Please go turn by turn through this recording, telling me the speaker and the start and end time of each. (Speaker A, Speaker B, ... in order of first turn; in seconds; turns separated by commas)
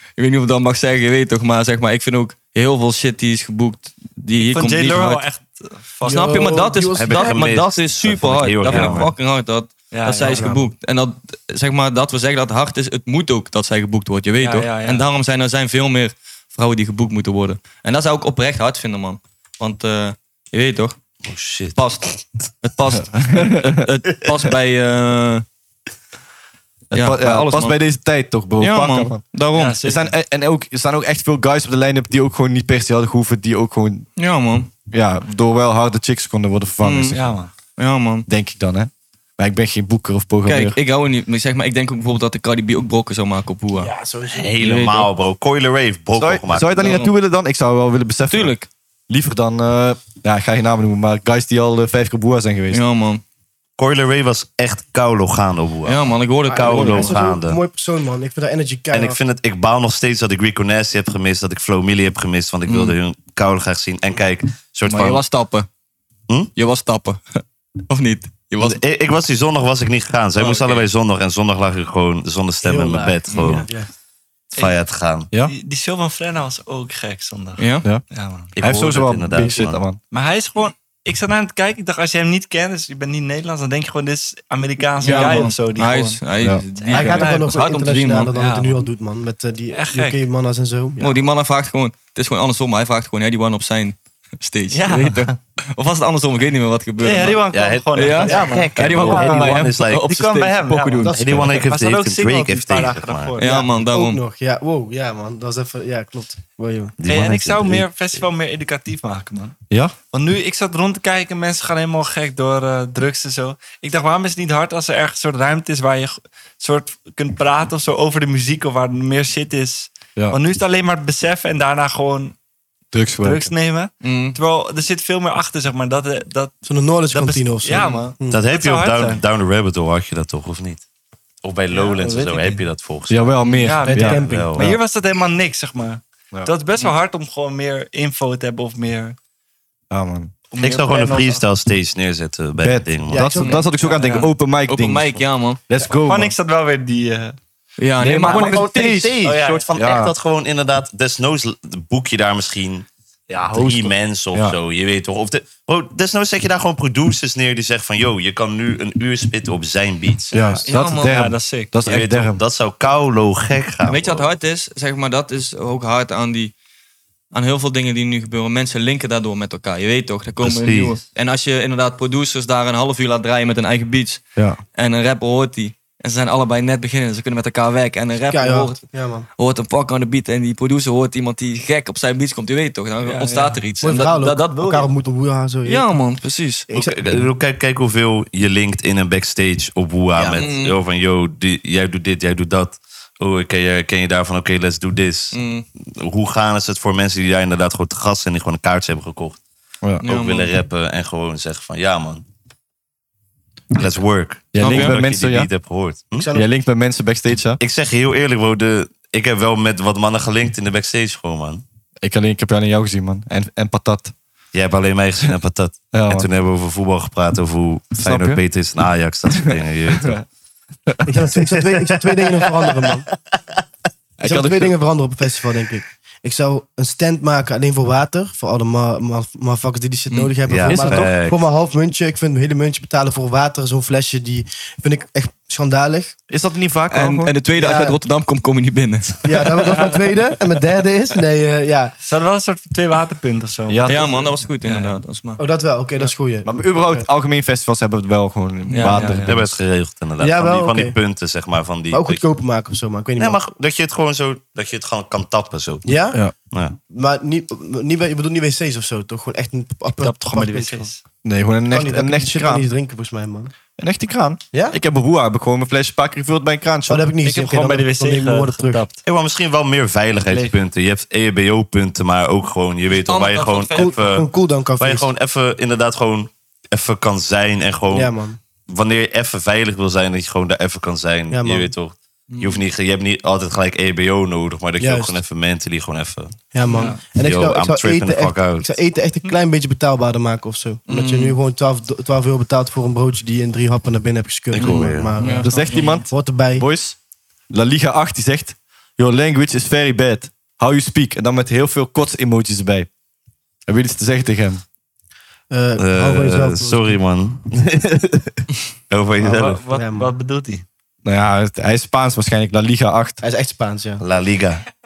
Speaker A: 0.2-5.2, Speaker B: 4.4-6.6, Speaker C: 6.0-7.4, Speaker A: 6.0-21.0, Speaker D: 6.9-9.1, Speaker B: 8.6-9.0, Speaker B: 9.9-10.6, Speaker C: 10.2-10.6, Speaker B: 14.4-15.0, Speaker D: 21.2-21.8, Speaker A: 21.7-25.4, Speaker E: 23.1-23.8, Speaker E: 26.9-29.2, Speaker A: 26.9-27.8, Speaker A: 28.6-29.8, Speaker B: 29.5-30.1, Speaker E: 29.8-34.1, Speaker A: 34.1-34.7, Speaker E: 34.9-37.4, Speaker A: 36.8-37.2, Speaker B: 37.1-37.5, Speaker A: 37.8-38.2, Speaker E: 38.3-40.8, Speaker A: 40.4-43.9, Speaker C: 43.8-44.5, Speaker D: 44.3-47.0, Speaker A: 44.6-45.1, Speaker E: 46.1-48.5, Speaker A: 46.8-47.1, Speaker A: 48.3-48.7, Speaker E: 49.1-52.8, Speaker A: 52.7-53.2, Speaker D: 53.8-57.6, Speaker A: 55.8-57.2, Speaker C: 56.5-59.2, Speaker D: 58.9-65.2, Speaker A: 62.6-62.9, Speaker A: 64.9-65.7, Speaker A: 66.5-68.8, Speaker D: 68.6-73.7, Speaker B: 70.3-70.8, Speaker C: 72.6-73.9, Speaker A: 73.3-73.6, Speaker D: 74.5-75.3, Speaker B: 75.4-78.5, Speaker A: 77.6-77.8, Speaker D: 78.5-79.8, Speaker E: 78.6-80.0, Speaker B: 80.1-87.6, Speaker A: 85.0-88.3, Speaker C: 85.0-85.6, Speaker C: 86.9-91.2, Speaker B: 88.3-88.8, Speaker B: 89.7-90.2, Speaker A: 91.0-101.4, Speaker B: 94.7-95.4, Speaker B: 97.0-103.5, Speaker D: 97.5-100.1, Speaker C: 101.0-101.6, Speaker D: 101.1-103.4, Speaker A: 103.4-104.2, Speaker C: 103.4-107.0, Speaker D: 107.0-108.2, Speaker B: 107.0-109.5, Speaker B: 110.1-122.3, Speaker E: 122.9-123.5, Speaker B: 123.2-126.5, Speaker A: 124.0-124.4, Speaker C: 126.6-128.4, Speaker B: 127.1-129.2, Speaker A: 127.7-128.1, Speaker D: 128.3-130.8, Speaker D: 131.4-133.3, Speaker B: 131.7-132.6, Speaker E: 133.1-134.8, Speaker B: 133.6-139.2, Speaker C: 133.8-134.5, Speaker D: 134.2-134.7, Speaker E: 139.9-140.3, Speaker B: 140.5-141.4, Speaker D: 140.6-143.3, Speaker E: 142.6-146.3, Speaker C: 143.1-143.7, Speaker A: 143.4-145.6, Speaker B: 143.8-144.3, Speaker B: 145.9-147.3, Speaker A: 147.8-149.1, Speaker E: 148.0-149.0, Speaker D: 148.1-152.8, Speaker B: 149.2-149.8, Speaker E: 149.8-150.1, Speaker D: 153.5-160.6, Speaker E: 153.5-153.8, Speaker E: 160.3-162.4, Speaker A: 160.7-161.1, Speaker B: 160.7-161.9, Speaker D: 161.8-164.3, Speaker A: 163.8-166.5, Speaker A: 167.3-178.8, Speaker D: 170.4-171.0, Speaker C: 178.3-179.3, Speaker A: 179.4-184.9, Speaker B: 183.0-183.7, Speaker C: 183.8-185.9, Speaker A: 185.7-186.7, Speaker D: 186.7-199.4, Speaker C: 186.7-187.2, Speaker C: 190.2-190.4, Speaker A: 190.4-190.8, Speaker A: 195.3-195.7, Speaker A: 200.0-200.5, Speaker D: 200.0-202.2, Speaker D: 203.7-206.3, Speaker E: 204.5-205.5, Speaker A: 204.6-205.0, Speaker C: 206.2-206.5, Speaker E: 206.3-207.6, Speaker D: 207.6-211.6, Speaker E: 212.0-214.1, Speaker D: 214.5-220.2, Speaker E: 215.9-216.3, Speaker E: 218.0-218.4, Speaker C: 221.1-223.0, Speaker D: 221.4-223.2, Speaker E: 224.2-224.7, Speaker C: 224.2-236.2, Speaker A: 230.1-230.3, Speaker D: 230.4-231.4, Speaker E: 230.6-231.1, Speaker E: 236.3-237.3, Speaker A: 236.9-239.6, Speaker C: 237.6-238.0, Speaker C: 239.2-241.9, Speaker B: 242.0-244.9, Speaker E: 243.7-244.2, Speaker A: 243.9-245.4, Speaker C: 245.4-247.1, Speaker E: 246.4-249.5, Speaker A: 248.7-249.1, Speaker B: 248.7-249.4, Speaker D: 249.2-252.2, Speaker C: 250.2-251.0, Speaker C: 251.9-253.4, Speaker D: 253.2-255.9, Speaker C: 255.8-256.3, Speaker D: 256.5-256.8, Speaker C: 256.9-260.9, Speaker B: 259.9-261.0, Speaker E: 261.2-262.7, Speaker C: 261.7-263.5, Speaker E: 263.8-267.1, Speaker C: 266.9-268.9, Speaker B: 267.2-269.0, Speaker D: 269.0-278.1, Speaker B: 270.2-270.5, Speaker A: 272.9-274.0, Speaker C: 273.8-275.1, Speaker C: 277.9-278.4, Speaker D: 278.7-286.4, Speaker C: 281.3-281.7, Speaker C: 284.8-285.2, Speaker C: 286.5-296.6, Speaker B: 286.7-287.1, Speaker D: 287.1-288.7, Speaker A: 290.9-291.4, Speaker D: 294.5-295.1, Speaker A: 294.6-296.0, Speaker E: 295.3-297.0, Speaker B: 295.5-295.9, Speaker E: 297.5-302.9, Speaker E: 303.7-304.6, Speaker C: 305.5-306.9, Speaker D: 305.8-309.7, Speaker B: 309.3-310.6, Speaker C: 309.3-310.1, Speaker E: 311.0-313.2, Speaker C: 313.2-314.0, Speaker D: 314.0-314.6